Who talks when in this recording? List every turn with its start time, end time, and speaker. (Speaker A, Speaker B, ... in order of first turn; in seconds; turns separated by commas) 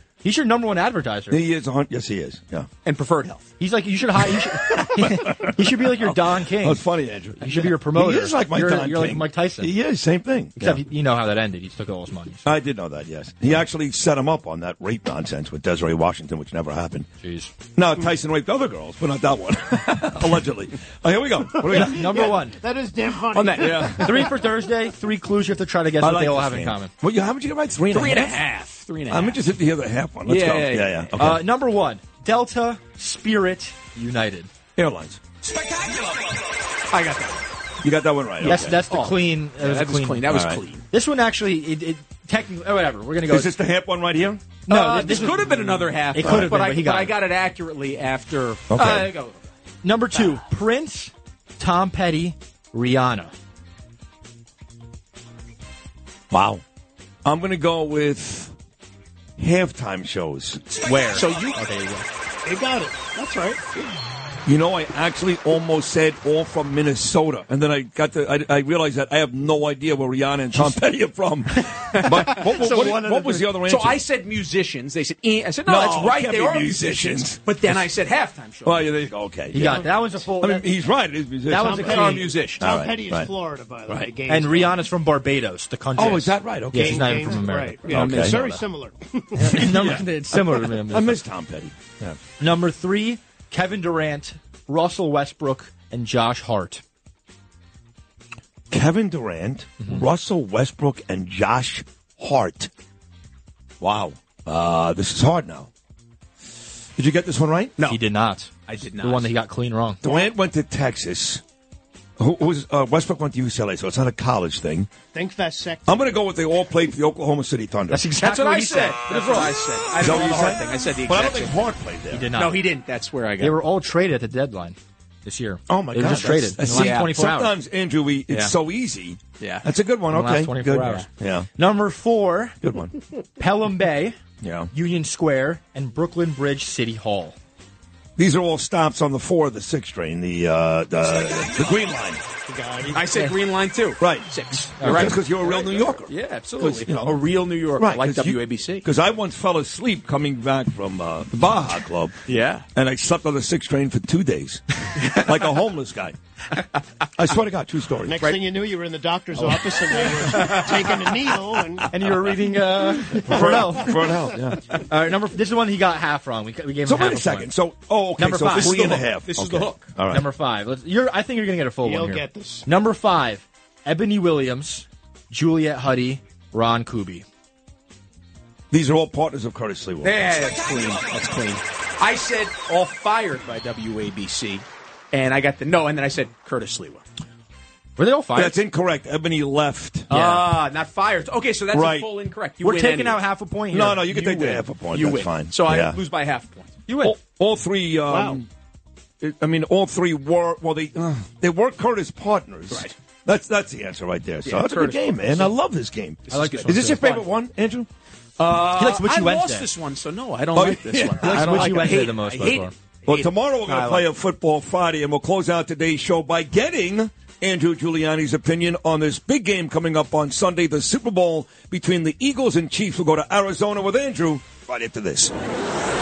Speaker A: 0.2-1.4, Speaker B: 1.3-2.7, Speaker C: 2.9-3.5, Speaker A: 3.6-9.8, Speaker B: 4.7-10.8, Speaker A: 10.6-12.5, Speaker B: 12.4-17.1, Speaker A: 17.2-17.5, Speaker B: 17.8-22.4, Speaker D: 21.7-24.4, Speaker A: 21.7-22.6, Speaker C: 23.3-23.8, Speaker B: 23.6-24.3, Speaker A: 23.9-26.9, Speaker B: 26.0-28.4, Speaker C: 27.9-29.4, Speaker B: 29.1-31.4, Speaker C: 30.3-31.2, Speaker A: 31.2-34.5, Speaker B: 34.8-35.2, Speaker C: 36.9-37.5, Speaker B: 37.8-38.8, Speaker A: 38.4-40.3, Speaker C: 38.5-40.8, Speaker B: 40.3-40.6, Speaker A: 40.9-43.6, Speaker B: 43.2-44.4, Speaker A: 44.7-47.2, Speaker C: 44.7-49.5, Speaker B: 46.2-46.5, Speaker B: 48.7-49.1, Speaker A: 49.8-53.3, Speaker B: 56.3-56.6, Speaker B: 57.2-58.5, Speaker B: 59.4-60.6, Speaker A: 60.8-62.1, Speaker C: 61.1-61.6, Speaker D: 62.5-63.7, Speaker B: 64.5-74.0, Speaker C: 71.9-73.0, Speaker D: 72.5-73.5, Speaker C: 73.7-79.1, Speaker B: 75.7-77.8, Speaker B: 78.7-83.3, Speaker A: 79.5-80.9, Speaker A: 81.4-82.3, Speaker D: 81.6-84.9, Speaker C: 81.8-82.6, Speaker A: 84.3-88.6, Speaker B: 86.0-87.2, Speaker D: 86.7-89.8, Speaker B: 87.9-88.4, Speaker C: 87.9-88.5, Speaker A: 89.4-91.2, Speaker B: 89.5-92.2, Speaker A: 92.4-96.8, Speaker B: 98.7-102.7, Speaker B: 103.8-105.7, Speaker B: 107.0-107.8, Speaker A: 107.8-110.0, Speaker C: 108.7-109.3, Speaker B: 110.0-111.4, Speaker B: 112.2-114.9, Speaker D: 115.1-116.2, Speaker B: 115.9-118.0, Speaker A: 117.9-119.6, Speaker C: 118.2-121.7, Speaker B: 119.3-122.3, Speaker A: 122.1-122.6, Speaker C: 122.3-123.6, Speaker A: 123.4-127.6, Speaker B: 125.7-131.5, Speaker C: 126.1-127.1, Speaker C: 128.3-128.6, Speaker C: 129.4-129.7, Speaker A: 130.1-132.6, Speaker B: 132.6-132.9, Speaker A: 133.4-134.2, Speaker B: 134.4-134.7, Speaker A: 134.7-137.4, Speaker B: 138.2-142.2, Speaker D: 142.5-143.2, Speaker C: 142.9-148.9, Speaker B: 144.0-147.2, Speaker A: 144.8-145.2, Speaker B: 147.8-152.2, Speaker C: 152.3-152.7, Speaker B: 152.7-156.2, Speaker C: 155.0-155.6, Speaker B: 157.2-158.2, Speaker D: 158.0-161.9, Speaker A: 159.4-160.3, Speaker C: 160.2-161.1, Speaker A: 161.9-164.1, Speaker B: 163.2-164.7, Speaker D: 163.3-164.0, Speaker A: 164.8-167.5, Speaker B: 166.8-170.3, Speaker A: 168.2-169.1, Speaker C: 168.5-169.9, Speaker A: 170.1-177.3, Speaker D: 171.8-172.7, Speaker B: 178.7-180.2, Speaker C: 180.0-187.0, Speaker A: 188.0-188.6, Speaker B: 188.3-190.1, Speaker A: 190.1-190.6, Speaker C: 190.1-193.2, Speaker B: 191.7-192.1, Speaker A: 192.6-194.7, Speaker B: 193.7-196.0, Speaker C: 194.8-196.8, Speaker A: 196.9-197.2, Speaker B: 197.0-198.5, Speaker D: 198.1-198.4, Speaker B: 199.2-207.9, Speaker C: 204.4-205.6, Speaker C: 206.3-207.2, Speaker A: 206.3-207.2, Speaker C: 208.4-214.1, Speaker A: 208.7-209.7, Speaker B: 210.5-212.0, Speaker A: 211.2-212.7, Speaker B: 213.1-225.3